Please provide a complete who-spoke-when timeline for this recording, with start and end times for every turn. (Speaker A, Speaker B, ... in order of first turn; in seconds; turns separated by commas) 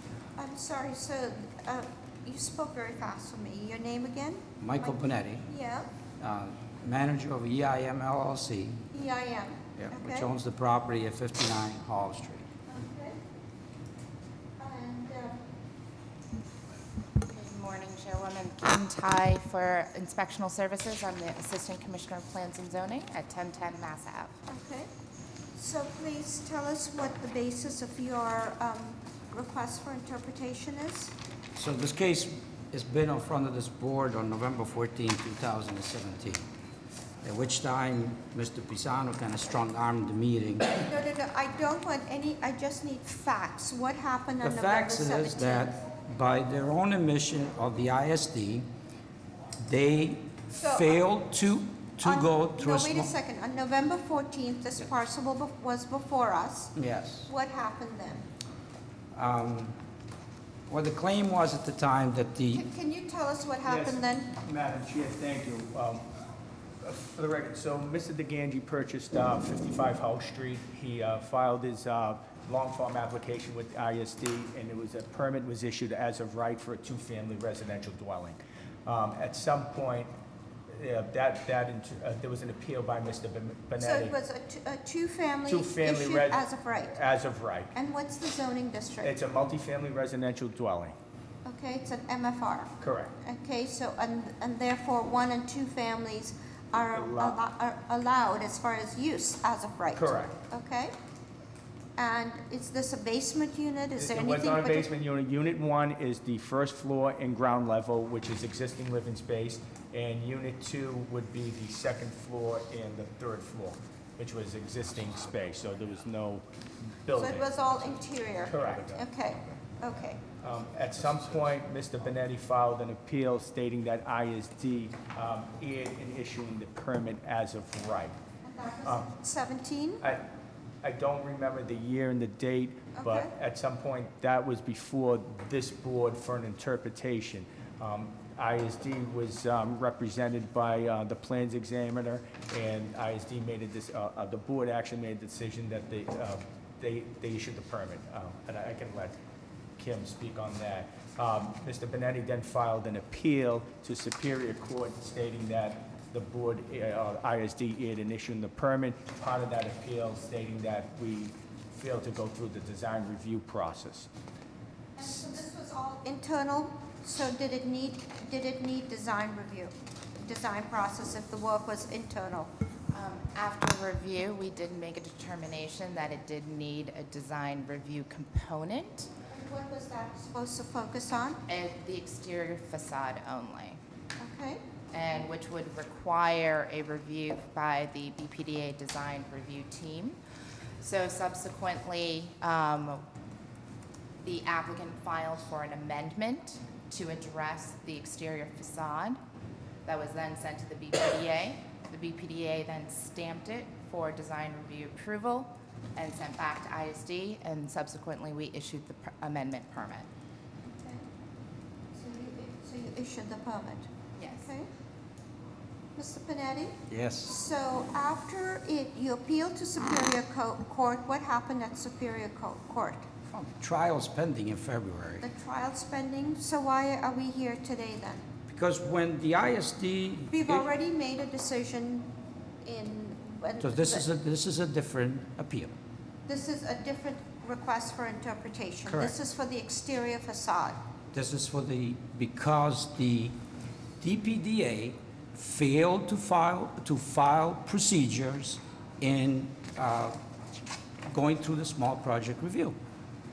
Speaker A: 0.4-4.9, Speaker B: 4.6-5.5, Speaker A: 5.5-5.9, Speaker B: 6.2-8.9, Speaker A: 8.9-10.3, Speaker B: 9.8-12.5, Speaker A: 12.7-13.2, Speaker A: 14.6-15.4, Speaker C: 17.2-24.3, Speaker A: 24.5-24.9, Speaker A: 25.5-31.1, Speaker B: 31.6-36.4, Speaker B: 37.2-40.7, Speaker A: 40.7-45.7, Speaker B: 44.4-48.7, Speaker B: 49.6-53.1, Speaker A: 50.6-50.9, Speaker A: 52.0-56.7, Speaker B: 56.8-57.3, Speaker A: 57.3-58.3, Speaker B: 59.1-59.8, Speaker B: 60.7-62.6, Speaker A: 62.5-64.3, Speaker D: 63.6-66.0, Speaker D: 66.8-80.1, Speaker D: 80.7-84.1, Speaker A: 83.8-87.0, Speaker D: 85.5-87.8, Speaker A: 87.7-89.1, Speaker D: 89.0-91.0, Speaker A: 91.4-100.9, Speaker D: 92.8-93.1, Speaker D: 96.7-97.4, Speaker D: 99.9-100.4, Speaker A: 102.0-104.8, Speaker D: 104.0-116.4, Speaker D: 117.0-119.0, Speaker A: 117.1-120.2, Speaker D: 120.4-128.2, Speaker A: 128.4-130.0, Speaker D: 128.8-129.1, Speaker D: 130.0-130.3, Speaker D: 130.8-149.2, Speaker A: 132.9-133.3, Speaker D: 149.8-164.1, Speaker A: 165.0-172.5, Speaker C: 172.9-179.1, Speaker A: 179.3-181.4, Speaker C: 181.5-183.8, Speaker A: 184.2-184.6, Speaker C: 184.9-190.2, Speaker C: 190.8-193.0, Speaker C: 194.2-199.2, Speaker C: 199.8-210.1, Speaker A: 210.7-211.0, Speaker A: 211.9-214.7, Speaker C: 214.2-214.5, Speaker A: 215.9-223.0, Speaker B: 216.9-217.4, Speaker B: 223.3-225.2, Speaker A: 225.2-228.3, Speaker B: 228.5-230.6, Speaker A: 230.3-232.1, Speaker A: 232.6-234.0, Speaker B: 233.6-235.7, Speaker A: 236.3-240.8, Speaker B: 238.9-239.1, Speaker B: 241.1-243.4, Speaker B: 244.0-250.2, Speaker B: 251.1-252.8